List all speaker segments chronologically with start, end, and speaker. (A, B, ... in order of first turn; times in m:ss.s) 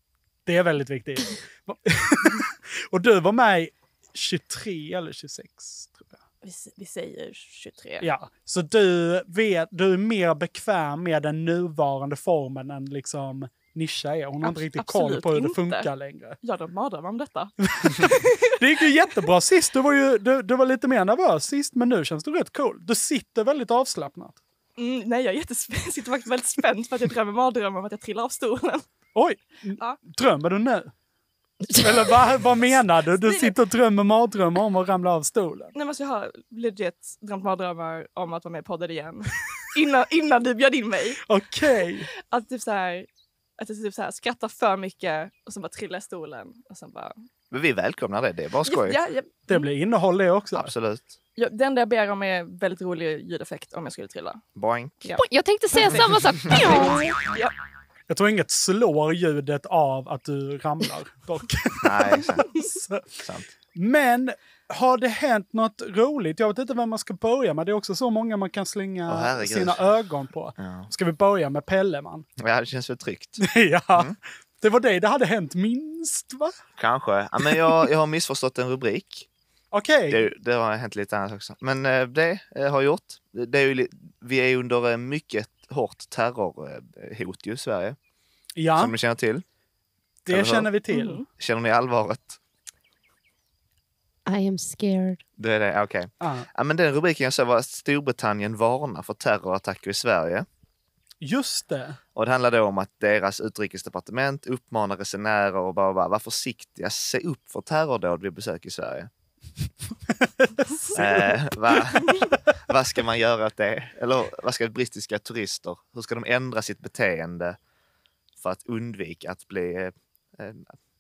0:00.5-0:06.2 A
0:06.4-0:08.1 B
0:08.0-0:16.4 A
0:14.4-0:15.9 B
0:16.4-0:18.4 B
0:17.8-0:24.4 A
0:24.8-0:28.8 B
0:29.2-0:30.9 A
0:31.8-0:35.7 A
0:33.2-0:33.5 B
0:35.7-0:41.2 B
0:41.3-0:42.1 A
0:42.3-0:47.2 B
0:47.5-0:49.0 C
0:48.6-0:49.7 B
0:49.5-0:50.7 A
0:50.5-0:51.1 C
0:51.4-0:54.4 B
0:54.6-0:55.1 C
0:55.2-0:57.1 D
0:55.8-0:57.5 B
0:58.1-1:03.2 A
1:01.8-1:02.5 C
1:03.2-1:03.5 C
1:03.7-1:12.3 A
1:09.1-1:09.8 C
1:10.6-1:10.9 C
1:12.4-1:14.2 C
1:13.4-1:16.5 A
1:16.8-1:19.3 C
1:19.7-1:20.3 A
1:20.1-1:28.0 C
1:28.6-1:28.9 A
1:28.8-1:29.4 C
1:30.3-1:31.2 A
1:30.3-1:30.7 C
1:30.9-1:31.2 B
1:31.4-1:32.4 C
1:34.3-1:35.2 D
1:35.4-1:40.5 C
1:36.2-1:36.5 A
1:41.2-1:42.0 A
1:42.2-1:49.1 C
1:50.8-1:51.4 A
1:50.9-1:57.6 C
1:58.4-2:00.8 C